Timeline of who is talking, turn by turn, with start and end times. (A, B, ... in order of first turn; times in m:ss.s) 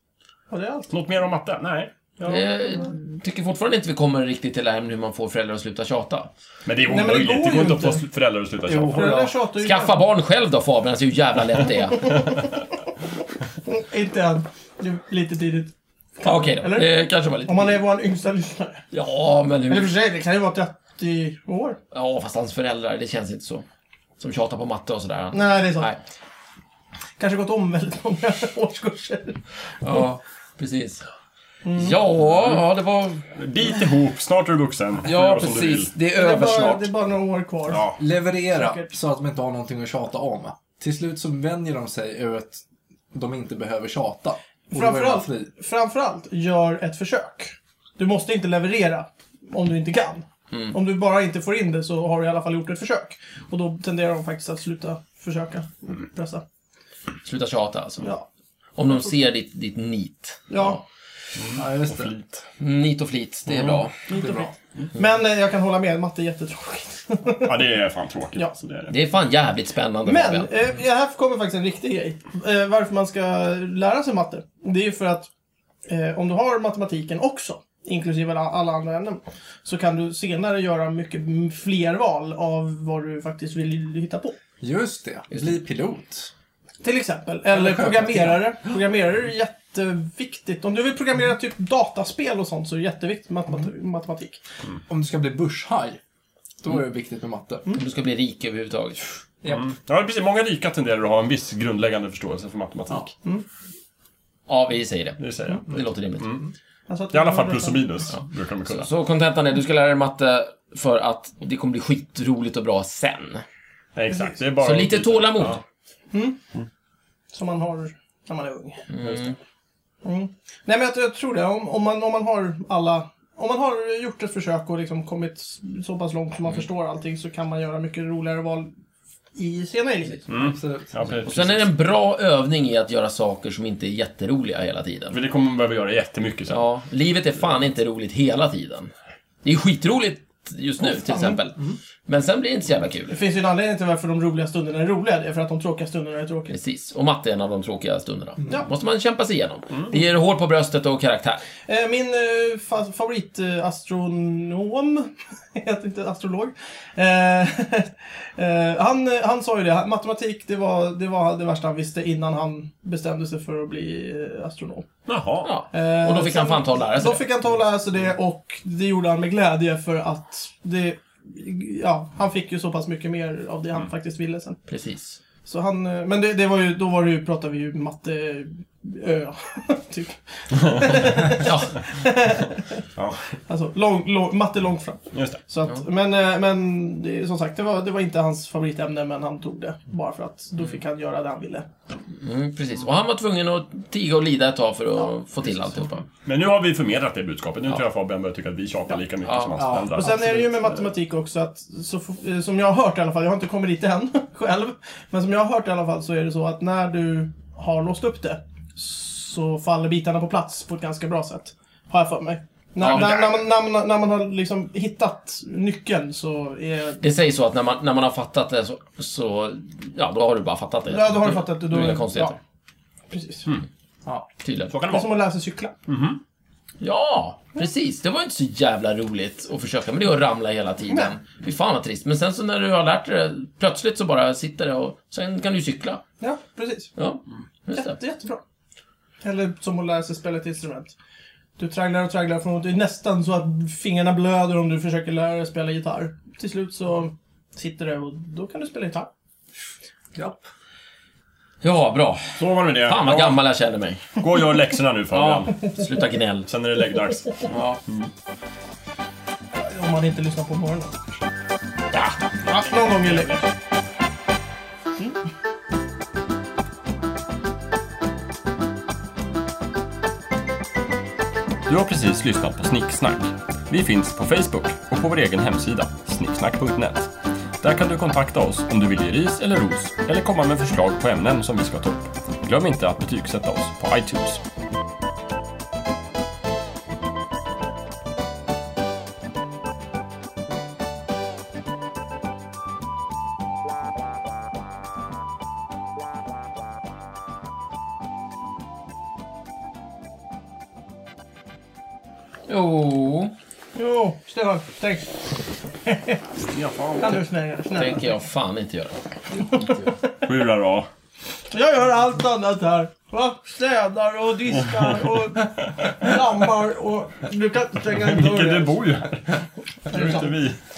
0:00.5-0:00.9 A
0:00.9-0:01.9 B
0:02.2-0:02.9 A
0:02.2-0:06.3 C
0:06.7-0:09.3 B
0:06.8-0:08.0 A
0:08.6-0:09.4 D
0:08.9-0:10.0 A
0:09.6-0:12.3 C
0:13.6-0:18.8 A
0:16.2-0:17.8 C
0:18.9-0:19.9 C
0:19.7-0:21.8 A
0:21.9-0:23.6 C
0:24.2-0:26.0 C
0:25.3-0:25.9 A
0:27.2-0:29.4 A
0:29.8-0:31.0 C
0:31.6-0:32.0 A
0:31.7-0:33.2 C
0:32.4-0:32.6 B
0:33.4-0:35.9 B
0:35.0-0:36.9 C
0:36.1-0:38.0 A
0:37.7-0:38.0 B
0:38.0-0:45.5 D
0:38.5-0:38.9 A
0:44.7-0:56.4 A
0:57.2-0:58.1 C
0:58.8-1:00.8 C
1:00.5-1:00.8 A
1:01.4-1:02.4 B
1:01.6-1:02.1 D
1:02.6-1:04.0 C
1:03.5-1:03.8 B
1:04.1-1:07.6 A
1:04.2-1:04.5 D
1:07.4-1:08.9 B
1:08.9-1:10.5 C
1:10.1-1:15.3 A
1:15.9-1:24.4 A
1:24.6-1:26.3 D
1:26.8-1:34.4 A
1:27.5-1:28.5 D
1:34.9-1:36.0 D
1:36.6-1:37.7 D
1:37.7-1:39.0 C
1:39.4-1:43.1 B
1:44.5-1:46.4 C
1:45.2-1:46.4 B
1:46.9-1:47.9 A
1:47.1-1:48.9 B
1:48.7-1:53.4 C
1:54.0-1:55.6 B
1:54.1-1:54.4 A
1:54.6-1:55.6 C
1:56.1-1:56.4 A
1:57.3-1:58.8 A
1:58.9-1:59.4 C
1:59.0-1:59.3 B
2:00.0-2:08.7 A
2:09.4-2:10.3 A
2:10.3-2:11.7 B
2:10.3-2:11.2 D
2:11.2-2:15.2 C
2:15.1-2:16.6 B
2:16.5-2:18.9 C
2:19.4-2:23.2 C
2:20.9-2:21.4 A
2:23.1-2:26.6 A
2:26.5-2:31.4 C
2:31.7-2:44.9 A
2:45.1-2:45.5 B
2:45.4-2:47.2 C
2:45.7-2:54.6 A
2:54.7-2:55.2 C
2:55.4-3:02.8 A
3:01.3-3:01.8 C
3:03.0-3:03.2 B
3:03.5-3:11.7 A
3:05.1-3:05.4 B
3:12.2-3:16.1 C
3:16.2-3:20.4 B
3:19.2-3:19.6 C
3:19.6-3:20.5 D
3:19.9-3:37.0 A
3:32.8-3:33.4 C
3:32.8-3:33.3 B
3:37.0-3:42.4 C
3:40.9-3:42.4 A
3:43.1-3:43.5 A
3:44.4-3:44.8 C
3:44.7-3:45.1 B
3:44.9-3:45.8 A
3:45.9-3:46.2 B
3:46.8-3:56.0 C
3:56.2-3:56.9 A
3:57.0-3:58.0 C
3:57.7-3:58.4 A
3:59.2-4:01.0 A
4:01.6-4:09.1 A
4:10.2-4:10.4 D
4:11.6-4:14.2 C
4:12.4-4:13.4 B
4:14.2-4:15.6 B
4:15.1-4:16.5 C
4:16.5-4:18.1 B
4:17.5-4:17.8 C
4:19.6-4:21.0 A
4:21.9-4:22.3 C
4:22.5-4:23.4 A
4:31.7-4:44.4 B
5:02.5-5:03.3 C
5:03.8-5:05.1 A
5:05.8-5:06.2 A
5:06.5-5:07.2 B
5:07.0-5:08.1 A
5:07.7-5:09.6 C
5:09.4-5:09.9 A
5:10.2-5:10.9 B
5:11.5-5:18.9 A
5:14.6-5:16.2 B
5:17.9-5:20.6 B
5:19.9-5:20.4 A